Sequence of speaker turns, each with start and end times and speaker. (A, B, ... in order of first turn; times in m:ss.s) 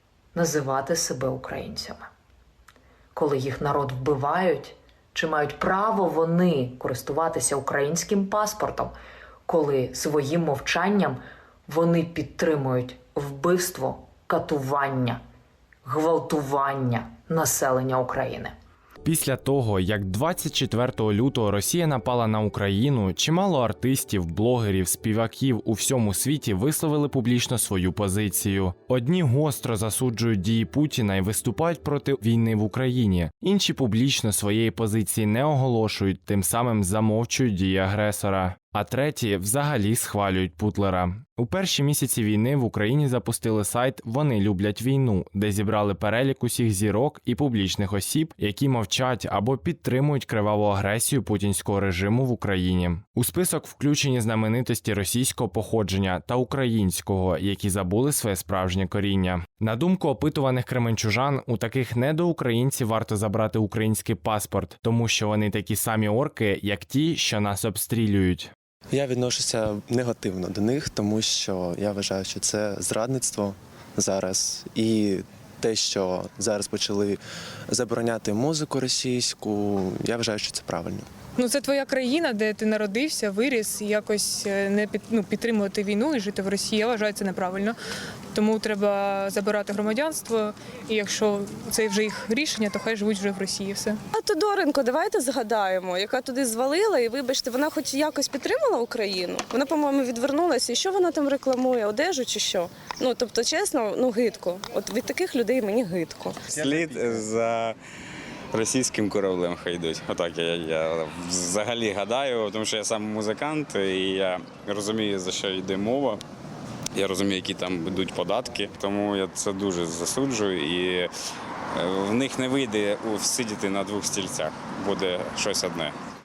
0:00.3-0:02.1 A
0:03.1-0:08.9 A
0:09.5-0:15.2 A
0:15.8-0:18.5 A
0:19.0-1:08.5 B
1:08.9-1:21.1 C
1:21.4-1:27.8 D
1:28.3-1:34.0 D
1:34.1-1:46.7 E
1:46.5-1:47.8 F
1:48.5-1:56.2 F
1:56.9-2:01.1 F
2:01.8-2:05.9 F